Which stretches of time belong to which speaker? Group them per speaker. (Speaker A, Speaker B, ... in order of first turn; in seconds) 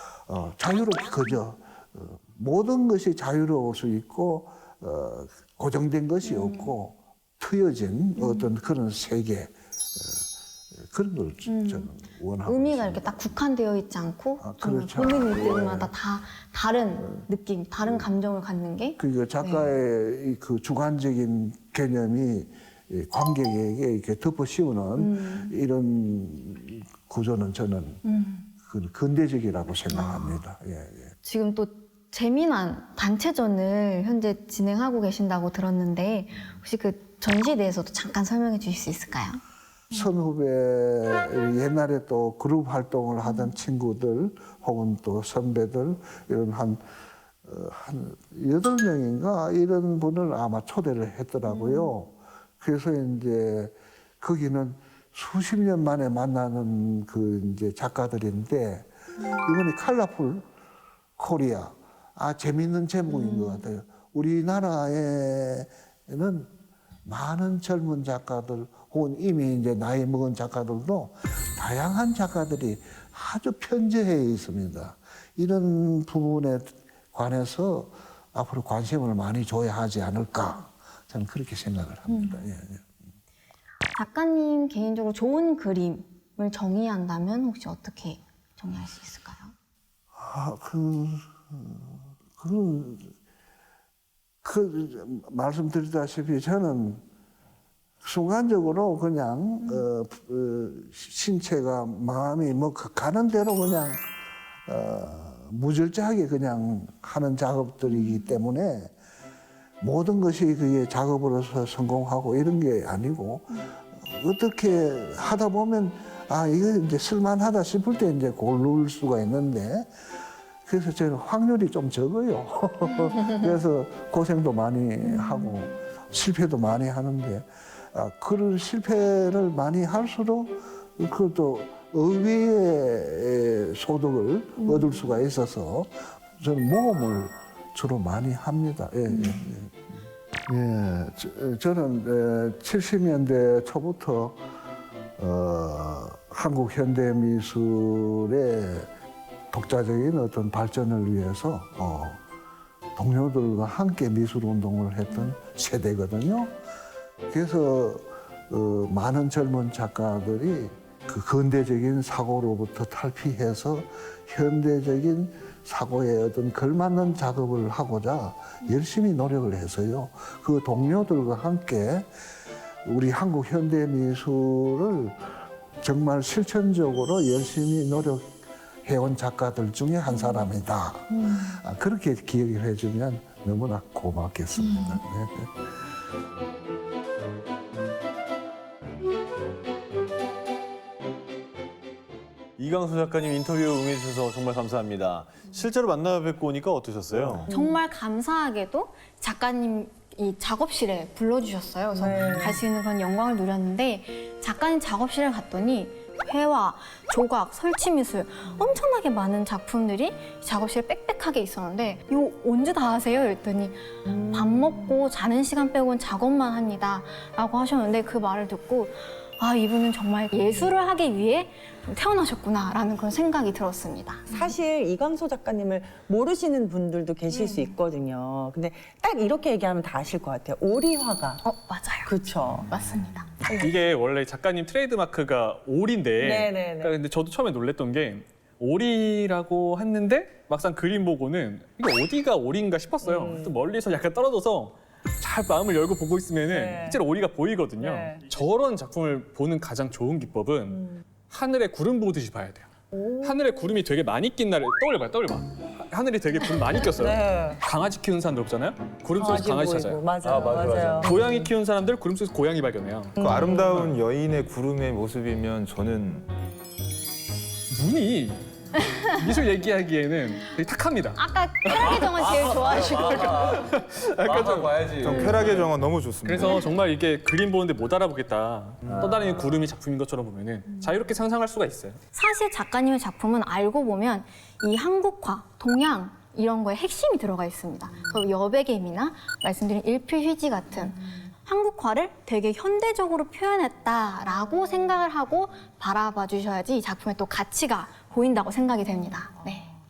Speaker A: 0.3-13.2, 14.4-15.9, 19.0-28.0, 28.6-31.1, 39.9-46.8, 47.5-60.4, 61.2-66.5, 67.1-82.8, 90.2-93.1, 94.4-97.0, 98.0-104.0, 104.7-108.9, 109.8-119.9, 120.7-144.5, 145.2-148.9, 149.5-152.2, 153.0-156.5, 157.3-172.1, 172.8-175.3, 175.8-178.3, 178.9-185.7
Speaker B: 6.2-6.8, 8.2-8.5, 11.5-11.9, 12.5-19.8, 25.0-25.6, 28.0-28.5, 29.9-30.4, 31.2-39.4, 43.2-43.6, 51.5-51.9, 63.1-63.6, 82.1-82.5, 84.0-89.5, 99.6-99.9, 107.9-108.4, 125.1-125.5, 134.6-135.2, 139.1-139.5, 180.1-180.4, 181.2-181.5, 184.6-185.0, 197.5-224.5, 227.3-227.7, 231.4-233.5, 268.8-269.1, 271.1-273.7, 275.1-275.4, 282.1-299.7
Speaker C: 192.6-197.5, 260.2-261.2, 272.2-273.6, 274.2-275.7, 278.9-279.6
Speaker D: 201.9-202.6, 214.1-214.8, 224.3-231.4, 232.1-232.8, 236.2-236.9, 243.0-243.5, 246.5-247.0, 247.8-248.2, 252.9-253.7, 257.0-257.6, 259.2-261.3, 263.2-263.6
Speaker E: 233.5-252.7, 253.2-260.1, 261.0-263.9, 267.7-268.4, 269.0-275.7, 276.2-282.0
Speaker F: 263.2-266.3, 275.0-276.6